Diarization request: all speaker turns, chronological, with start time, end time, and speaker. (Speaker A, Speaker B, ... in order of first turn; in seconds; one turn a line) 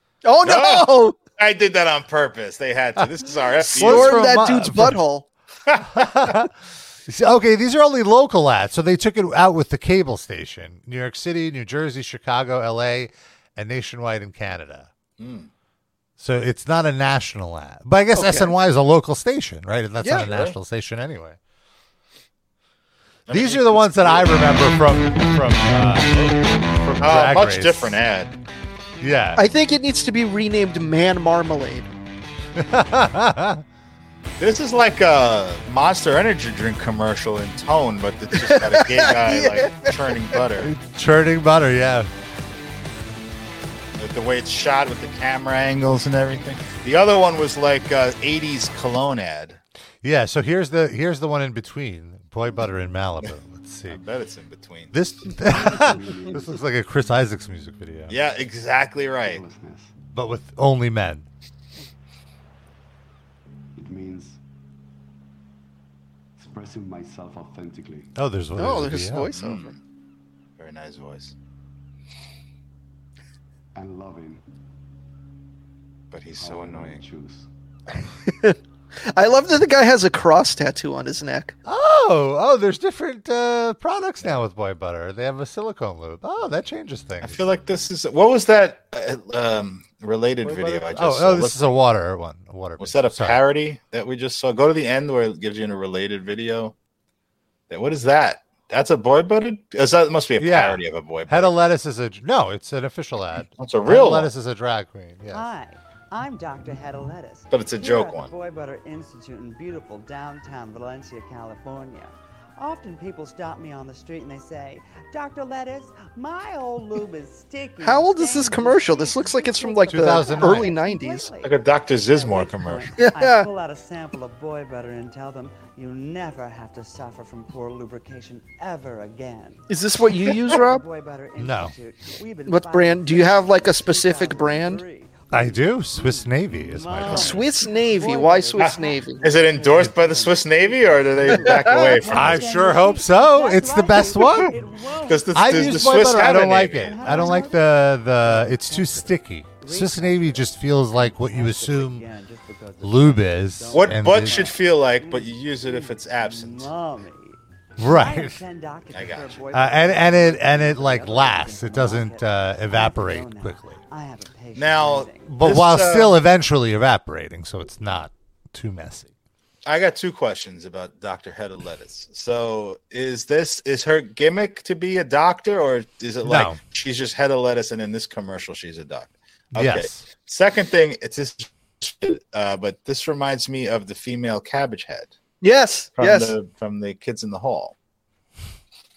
Speaker A: 0.2-1.2
Speaker B: 0.4-4.2
Speaker C: 3.7-5.0
Speaker A: 3.8-5.2
Speaker B: 5.7-6.0
Speaker C: 5.9-6.5
Speaker C: 7.1-14.9
Speaker B: 15.2-15.5
Speaker C: 16.2-21.4
Speaker A: 18.1-18.5
Speaker A: 20.0-20.2
Speaker B: 20.1-20.5
Speaker B: 23.3-24.3
Speaker C: 23.3-28.0
Speaker B: 27.0-28.4
Speaker C: 29.0-29.4
Speaker A: 29.4-31.9
Speaker C: 32.5-33.6
Speaker B: 34.4-40.7
Speaker A: 38.3-40.4
Speaker C: 40.6-42.1
Speaker B: 44.0-49.6
Speaker C: 50.0-54.0
Speaker B: 53.9-54.9
Speaker C: 54.9-58.1
Speaker D: 55.5-56.6
Speaker B: 58.1-59.4
Speaker D: 59.3-59.9
Speaker C: 60.1-61.3
Speaker D: 63.8-64.4
Speaker D: 66.4-68.1
Speaker C: 68.1-69.3
Speaker A: 68.5-69.7
Speaker B: 69.3-69.8
Speaker B: 70.6-71.3
Speaker D: 73.7-74.4
Speaker B: 76.1-77.0
Speaker D: 76.4-77.5
Speaker A: 78.3-81.5
Speaker C: 81.6-87.5
Speaker B: 87.2-91.6
Speaker C: 90.4-93.4
Speaker B: 92.8-96.7
Speaker B: 97.7-101.5
Speaker C: 100.4-105.4
Speaker B: 103.6-104.3
Speaker E: 105.3-129.6
Speaker B: 107.5-108.3
Speaker A: 117.8-121.3
Speaker C: 119.9-120.7
Speaker B: 121.4-122.9
Speaker A: 123.0-123.5
Speaker A: 129.7-130.8
Speaker E: 130.2-146.2
Speaker C: 131.4-131.7
Speaker A: 132.4-134.8
Speaker C: 135.3-137.3
Speaker A: 137.2-139.2
Speaker B: 138.6-142.6
Speaker A: 141.3-142.0
Speaker C: 142.1-144.5
Speaker B: 145.0-147.4
Speaker C: 145.3-152.0
Speaker E: 146.7-165.4
Speaker C: 152.8-154.5
Speaker B: 153.7-156.7
Speaker C: 157.8-158.4
Speaker B: 158.9-159.5
Speaker C: 159.5-163.8
Speaker B: 164.5-166.1
Speaker C: 165.2-169.1
Speaker B: 169.6-185.1
Speaker C: 176.2-176.6
Speaker C: 179.5-180.0
Speaker A: 185.4-186.3
Speaker B: 186.0-187.7